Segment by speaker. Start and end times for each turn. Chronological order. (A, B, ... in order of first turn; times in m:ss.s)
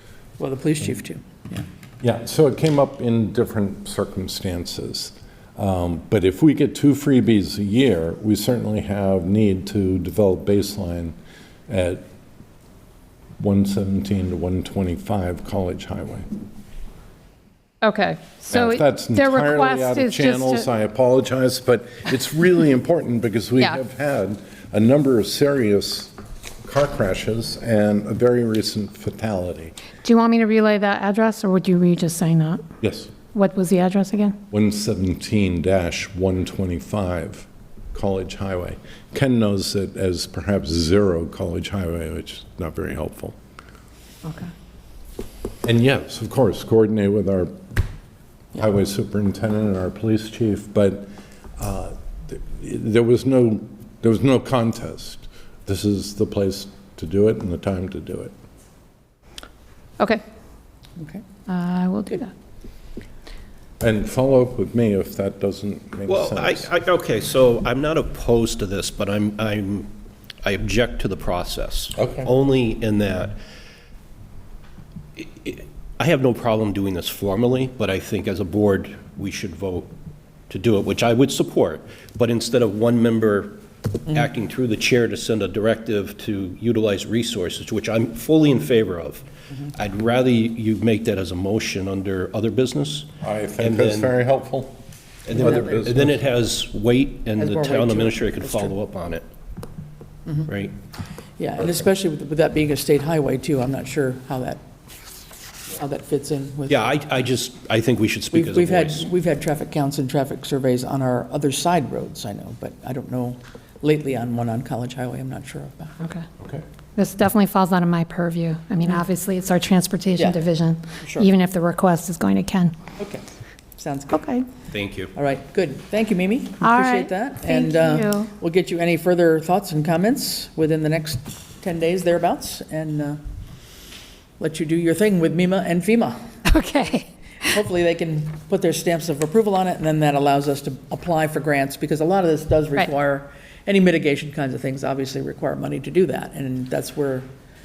0:00.4-0:01.6 A
0:02.0-0:11.2 B
0:11.7-0:12.0 B
0:13.4-0:16.3 B
0:17.8-0:20.7 C
0:18.5-0:26.1 B
0:26.6-0:29.8 B
0:30.0-0:32.6 C
0:32.8-0:33.1 B
0:33.3-0:34.4 C
0:34.5-0:43.4 B
0:44.2-0:44.5 C
0:45.6-0:47.6 B
0:48.5-0:58.3 B
1:01.0-1:01.2 A
1:01.5-1:02.3 C
1:03.8-1:06.7 B
1:06.1-1:09.9 D
1:10.4-1:13.4 D
1:12.0-1:12.2 B
1:15.2-1:19.9 D
1:20.5-1:34.1 D
1:33.2-1:34.8 B
1:35.2-1:39.2 D
1:35.3-1:36.2 B
1:35.4-1:35.8 A
1:37.4-1:38.7 A
1:40.4-1:40.7 D
1:41.4-1:44.6 A
1:45.8-1:46.8 A
1:46.7-1:49.0 D
1:48.3-1:56.0 A
1:57.0-2:02.7 C
2:00.2-2:00.4 A
2:01.0-2:01.3 A
2:03.0-2:03.2 A
2:03.8-2:04.3 A
2:04.1-2:04.4 C
2:04.7-2:05.1 D
2:05.1-2:13.2 A
2:06.6-2:08.3 C
2:14.4-2:16.2 A
2:16.4-2:17.1 C
2:17.4-2:27.3 A